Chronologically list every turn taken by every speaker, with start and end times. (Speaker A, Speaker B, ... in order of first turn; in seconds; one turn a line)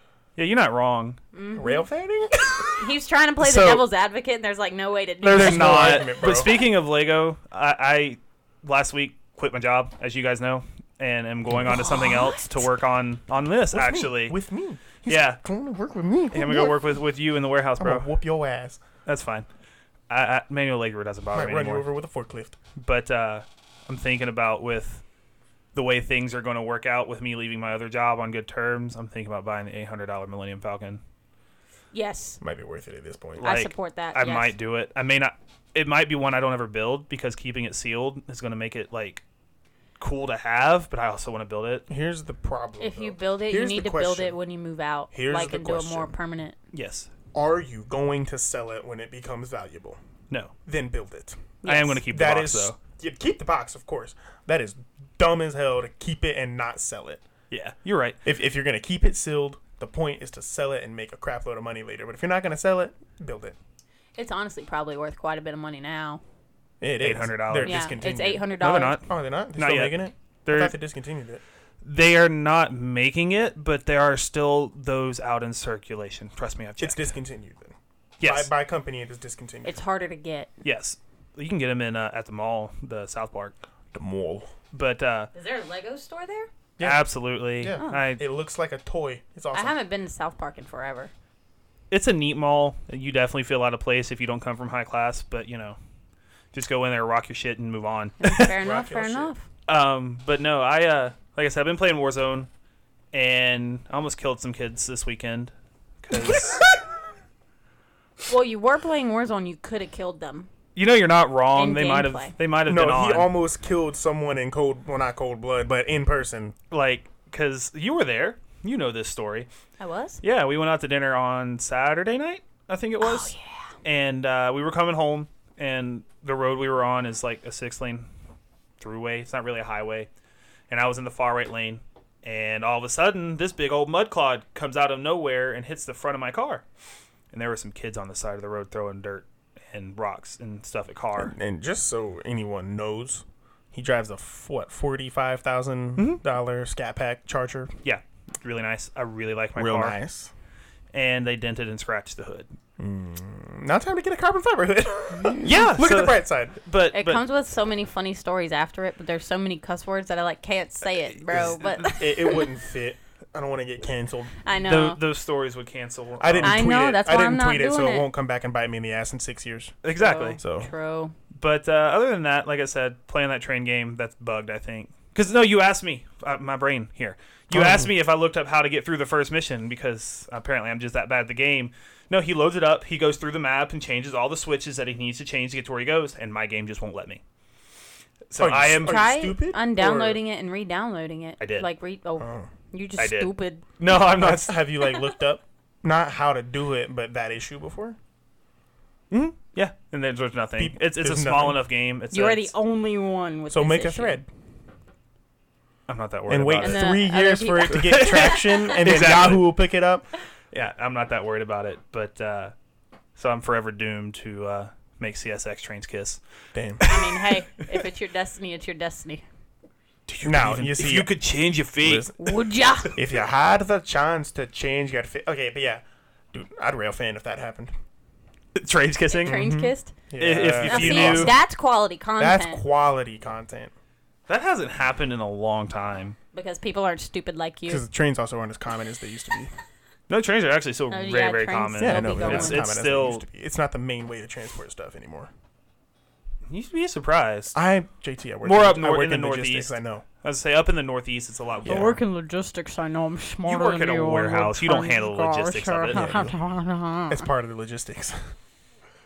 Speaker A: 0.4-1.2
Speaker B: 1.3-1.8
Speaker C: 1.5-2.7
Speaker B: 2.8-6.2
Speaker A: 3.4-3.9
Speaker A: 5.2-14.4
Speaker C: 5.3-6.6
Speaker B: 11.6-12.6
Speaker C: 13.7-16.8
Speaker A: 15.0-15.4
Speaker A: 16.3-18.1
Speaker C: 17.8-18.8
Speaker A: 19.1-19.5
Speaker A: 20.1-21.9
Speaker C: 21.3-22.6
Speaker A: 22.8-25.0
Speaker A: 25.7-31.0
Speaker B: 31.9-32.4
Speaker C: 32.4-33.5
Speaker A: 33.4-39.2
Speaker B: 33.4-34.5
Speaker A: 40.0-41.9
Speaker C: 41.9-44.4
Speaker B: 42.8-46.6
Speaker C: 45.1-46.1
Speaker A: 46.7-47.1
Speaker C: 47.3-50.0
Speaker C: 50.6-57.2
Speaker B: 51.6-52.0
Speaker A: 51.6-52.8
Speaker A: 57.5-58.2
Speaker C: 58.2-63.6
Speaker B: 64.2-66.2
Speaker C: 66.8-71.4
Speaker A: 67.0-67.9
Speaker B: 67.6-69.0
Speaker A: 68.6-70.7
Speaker A: 71.8-77.1
Speaker C: 76.8-79.8
Speaker A: 78.2-78.5
Speaker B: 79.6-80.5
Speaker A: 80.6-83.6
Speaker C: 83.9-84.5
Speaker A: 84.7-85.3
Speaker B: 85.3-86.5
Speaker C: 86.8-87.1
Speaker A: 86.8-88.2
Speaker C: 87.6-89.8
Speaker B: 87.8-88.0
Speaker B: 89.5-91.1
Speaker A: 91.9-95.8
Speaker A: 96.5-98.6
Speaker B: 98.2-99.5
Speaker C: 98.5-99.3
Speaker A: 99.7-102.5
Speaker A: 103.1-105.5
Speaker A: 106.0-106.6
Speaker C: 106.3-106.6
Speaker B: 108.3-110.5
Speaker A: 110.8-113.3
Speaker B: 111.5-112.3
Speaker C: 112.7-116.5
Speaker A: 116.7-119.5
Speaker B: 119.8-120.2
Speaker A: 120.2-128.1
Speaker B: 123.0-123.7
Speaker A: 128.8-130.1
Speaker A: 130.7-136.6
Speaker A: 137.3-141.3
Speaker C: 141.2-147.7
Speaker A: 146.0-146.2
Speaker A: 147.8-150.0
Speaker C: 149.6-150.3
Speaker A: 150.9-152.5
Speaker C: 152.8-156.6
Speaker A: 155.4-157.2
Speaker B: 156.9-162.5
Speaker C: 161.3-164.4
Speaker B: 164.4-165.0
Speaker A: 164.6-166.7
Speaker C: 166.2-169.8
Speaker B: 166.4-168.1
Speaker A: 169.8-170.4
Speaker B: 169.9-171.1
Speaker C: 170.4-170.7
Speaker A: 171.3-187.2
Speaker C: 177.5-177.9
Speaker A: 188.3-189.0
Speaker C: 188.4-190.2
Speaker B: 188.8-193.6
Speaker A: 191.4-191.7
Speaker C: 192.2-192.5
Speaker A: 193.0-194.6
Speaker C: 193.9-198.0
Speaker A: 199.1-202.5
Speaker C: 200.6-201.6
Speaker B: 202.1-204.2
Speaker C: 203.5-204.3
Speaker A: 205.9-206.9
Speaker C: 206.3-210.1
Speaker B: 206.6-209.0
Speaker A: 207.7-209.6
Speaker A: 210.5-212.5
Speaker A: 213.2-216.2
Speaker C: 216.5-216.8
Speaker A: 216.8-217.8
Speaker B: 216.8-219.2
Speaker A: 220.1-222.2
Speaker C: 220.2-221.1
Speaker C: 221.8-222.2
Speaker B: 222.2-222.9
Speaker C: 222.8-227.7
Speaker A: 228.5-229.5
Speaker B: 229.1-229.9
Speaker C: 229.2-231.4
Speaker A: 230.2-231.3
Speaker B: 230.6-232.6
Speaker C: 232.2-233.7
Speaker A: 234.3-236.2
Speaker B: 236.3-237.8
Speaker C: 237.7-239.5
Speaker A: 240.1-243.2
Speaker B: 240.9-242.6
Speaker C: 241.8-245.3
Speaker A: 246.5-247.6
Speaker C: 247.5-250.0
Speaker A: 248.4-252.0
Speaker C: 251.6-252.0
Speaker B: 251.6-257.3
Speaker A: 253.4-256.2
Speaker C: 255.9-256.4
Speaker C: 257.1-258.3